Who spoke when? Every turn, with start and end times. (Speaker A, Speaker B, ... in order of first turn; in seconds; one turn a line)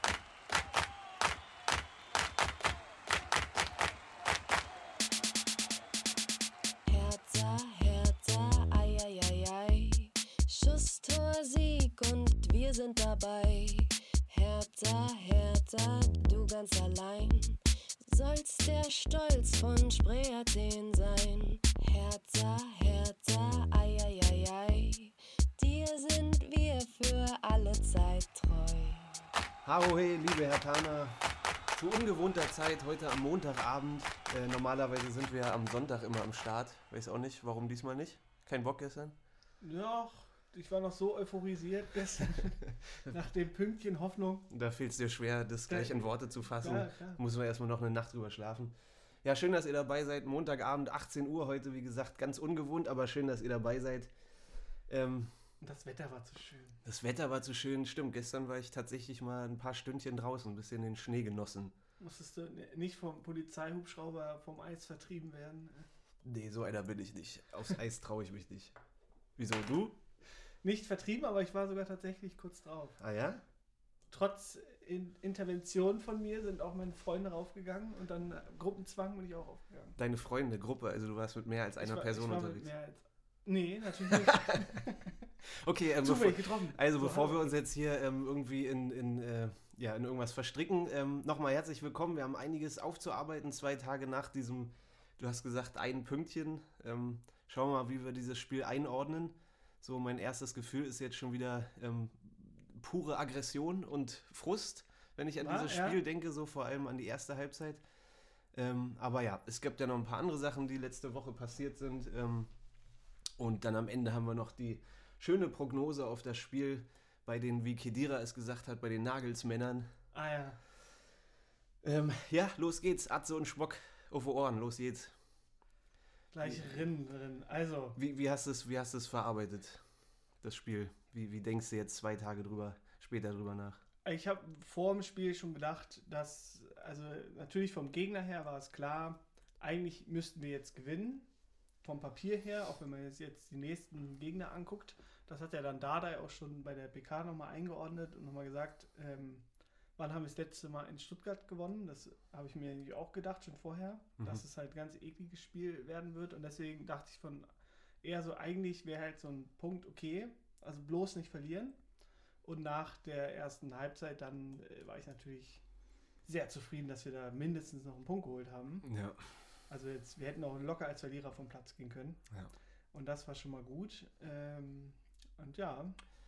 Speaker A: 6.8-29.3
Speaker B: 29.6-31.2
Speaker B: 31.7-39.1
Speaker C: 39.6-44.5
Speaker B: 44.5-48.7
Speaker C: 45.7-47.2
Speaker B: 49.2-54.1
Speaker B: 54.9-55.3
Speaker C: 55.6-56.8
Speaker B: 56.8-61.7
Speaker C: 62.0-65.9
Speaker B: 66.2-68.8
Speaker B: 69.4-70.0
Speaker C: 70.6-73.0
Speaker B: 73.0-73.4
Speaker C: 74.1-80.0
Speaker B: 80.0-82.7
Speaker C: 81.8-85.3
Speaker B: 84.1-84.8
Speaker B: 85.4-107.8
Speaker C: 86.0-87.5
Speaker C: 105.4-106.0
Speaker B: 108.5-112.5
Speaker B: 113.4-119.9
Speaker C: 120.1-120.6
Speaker B: 121.8-125.2
Speaker C: 126.3-128.0
Speaker B: 126.4-126.8
Speaker B: 128.0-129.8
Speaker B: 130.4-133.8
Speaker C: 134.0-141.3
Speaker C: 141.8-149.4
Speaker C: 150.0-157.5
Speaker C: 158.0-161.8
Speaker C: 162.4-165.6
Speaker C: 166.2-168.9
Speaker B: 168.8-169.2
Speaker C: 169.7-172.2
Speaker C: 172.9-175.9